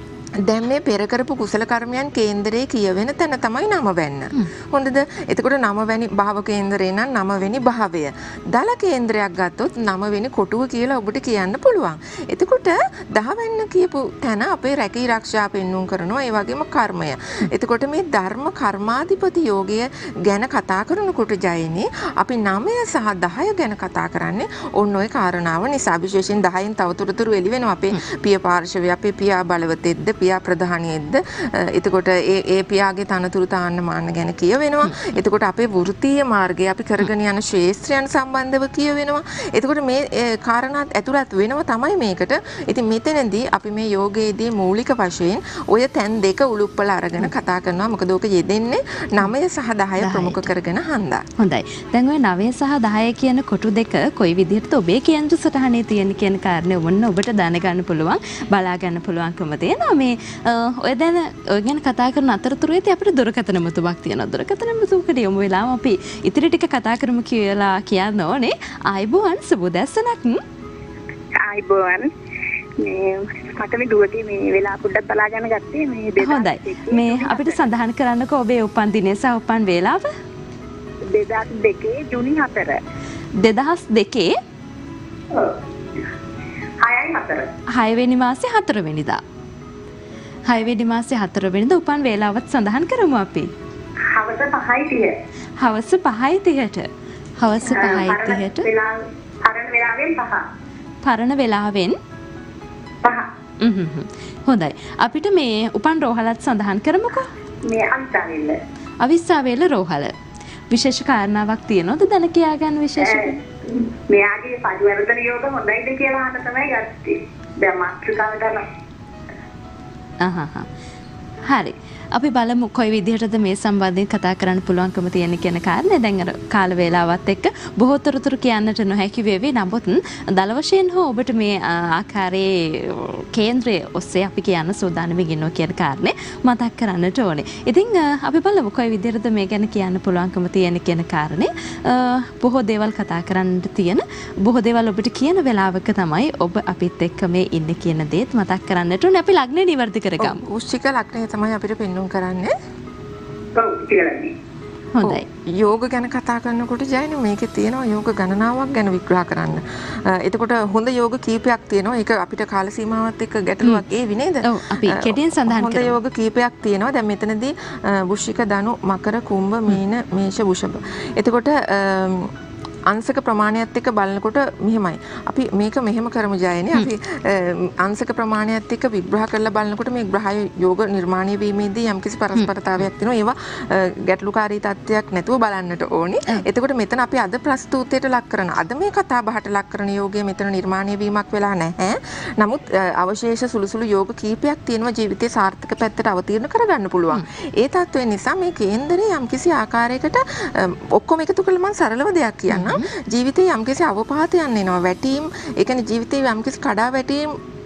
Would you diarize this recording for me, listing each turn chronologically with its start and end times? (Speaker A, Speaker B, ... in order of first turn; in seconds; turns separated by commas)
Speaker A: 0.4-51.2, Speaker B: 50.0-50.5, Speaker B: 51.4-70.4, Speaker C: 71.4-72.1, Speaker C: 72.8-77.6, Speaker B: 76.2-80.1, Speaker C: 81.1-82.8, Speaker B: 83.4-84.4, Speaker C: 85.3-85.6, Speaker C: 86.8-87.5, Speaker B: 87.7-89.2, Speaker B: 90.5-93.5, Speaker C: 94.0-95.2, Speaker B: 95.6-98.7, Speaker C: 97.7-100.4, Speaker B: 101.0-102.0, Speaker C: 103.0-103.3, Speaker B: 103.6-107.3, Speaker C: 107.7-108.6, Speaker B: 109.0-110.1, Speaker B: 110.7-113.4, Speaker C: 113.0-118.7, Speaker B: 120.2-120.7, Speaker B: 121.5-150.4, Speaker A: 150.2-152.5, Speaker C: 153.5-154.3, Speaker B: 154.9-155.2, Speaker A: 155.0-172.3, Speaker B: 164.4-165.9, Speaker A: 172.9-207.3, Speaker B: 202.5-202.9